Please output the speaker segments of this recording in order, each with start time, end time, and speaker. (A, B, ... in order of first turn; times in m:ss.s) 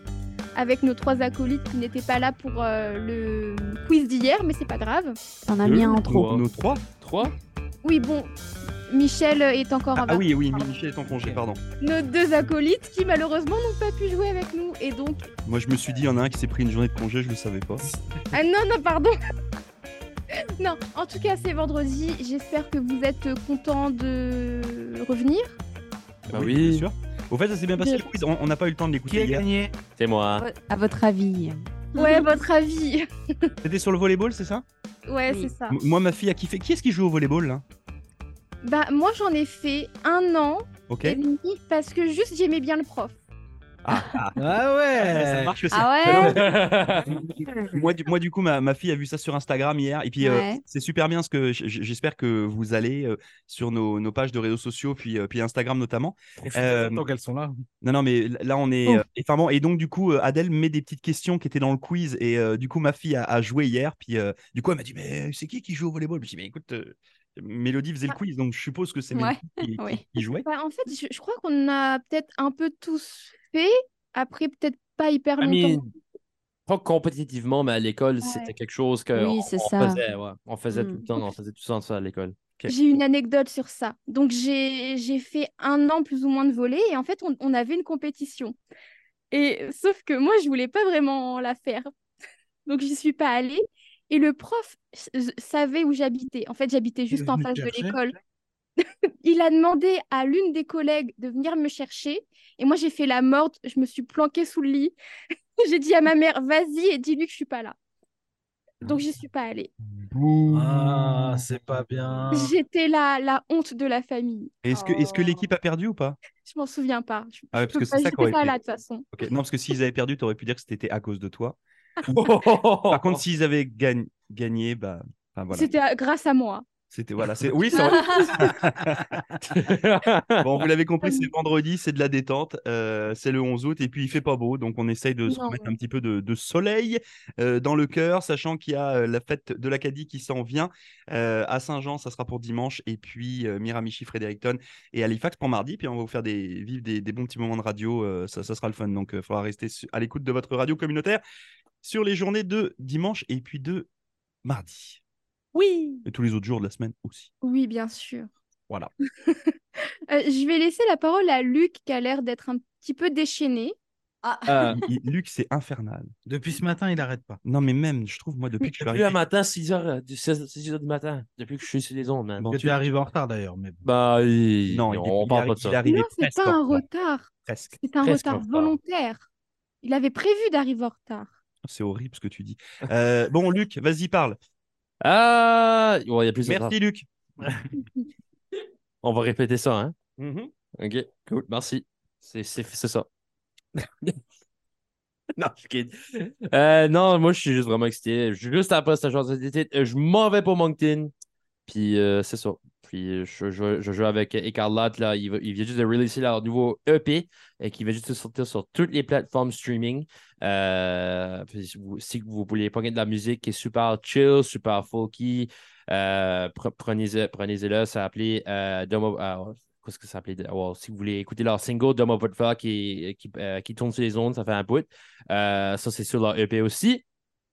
0:00.6-0:05.2 A
0:05.4-0:06.2 B
0:05.6-0:06.4 C
0:05.6-0:06.8 D
0:07.0-0:07.3 C
0:07.8-0:08.3 A
0:08.9-0:10.2 A
0:10.0-0:11.6 D
0:11.8-0:15.3 A
0:15.5-0:17.9 D
0:18.3-0:19.1 A
0:20.6-0:25.6 A
0:26.3-0:29.5 D
0:26.3-0:26.9 C
0:27.8-0:28.1 A
0:29.1-0:29.7 E
0:30.0-0:30.4 C
0:30.4-0:32.3 B
0:32.0-0:33.5 A
0:33.6-0:34.6 D
0:35.1-0:35.8 A
0:35.7-0:37.6 D
0:38.6-0:43.2 A
0:40.9-0:41.2 D
0:43.8-0:44.4 D
0:44.4-0:45.7 E
0:45.0-0:46.4 D
0:45.7-0:46.4 B
0:46.1-0:47.2 C
0:47.7-0:57.0 D
0:50.2-0:50.6 B
0:56.5-0:57.6 E
0:57.8-1:10.5 D
1:09.1-1:10.1 B
1:10.4-1:15.8 A
1:15.4-1:15.9 C
1:16.7-1:22.4 C
1:18.2-1:18.5 B
1:19.1-1:20.0 B
1:20.7-1:21.0 B
1:22.7-1:28.6 A
1:29.3-1:31.9 A
1:32.7-1:38.2 A
1:37.1-1:38.0 E
1:39.2-1:45.0 A
1:45.6-1:47.8 A
1:48.8-1:49.7 A
1:50.0-1:52.5 E
1:50.1-1:51.4 D
1:52.3-1:55.3 A
1:54.6-1:56.2 D
1:56.4-1:59.1 A
1:57.5-1:58.6 D
1:59.1-2:01.6 D
2:02.1-2:03.2 C
2:02.9-2:05.7 D
2:05.5-2:06.6 A
2:06.9-2:09.8 D
2:07.8-2:08.5 B
2:07.8-2:08.4 A
2:09.6-2:10.6 C
2:10.4-2:31.2 D
2:11.0-2:11.3 A
2:15.2-2:15.8 A
2:31.8-2:33.9 D
2:34.4-2:35.0 D
2:35.6-2:36.0 B
2:36.1-2:37.3 D
2:37.4-2:38.3 A
2:39.3-2:39.5 A
2:40.1-2:43.8 A
2:44.2-2:44.8 B
2:44.5-2:44.8 E
2:44.7-2:46.1 D
2:46.3-2:47.4 E
2:47.4-2:49.2 D
2:48.8-2:52.5 C
2:52.4-2:52.8 D
2:52.5-2:53.9 E
2:53.8-2:55.8 C
2:54.7-2:56.8 D
2:55.8-2:59.2 A
2:57.4-2:57.8 D
2:58.0-2:58.8 C
2:59.8-3:01.3 A
3:01.6-3:04.4 D
3:05.0-3:06.8 C
3:06.4-3:07.1 D
3:09.0-3:10.0 C
3:10.2-3:10.5 D
3:10.8-3:13.1 C
3:13.8-3:14.2 C
3:15.4-3:21.1 C
3:21.7-3:47.0 C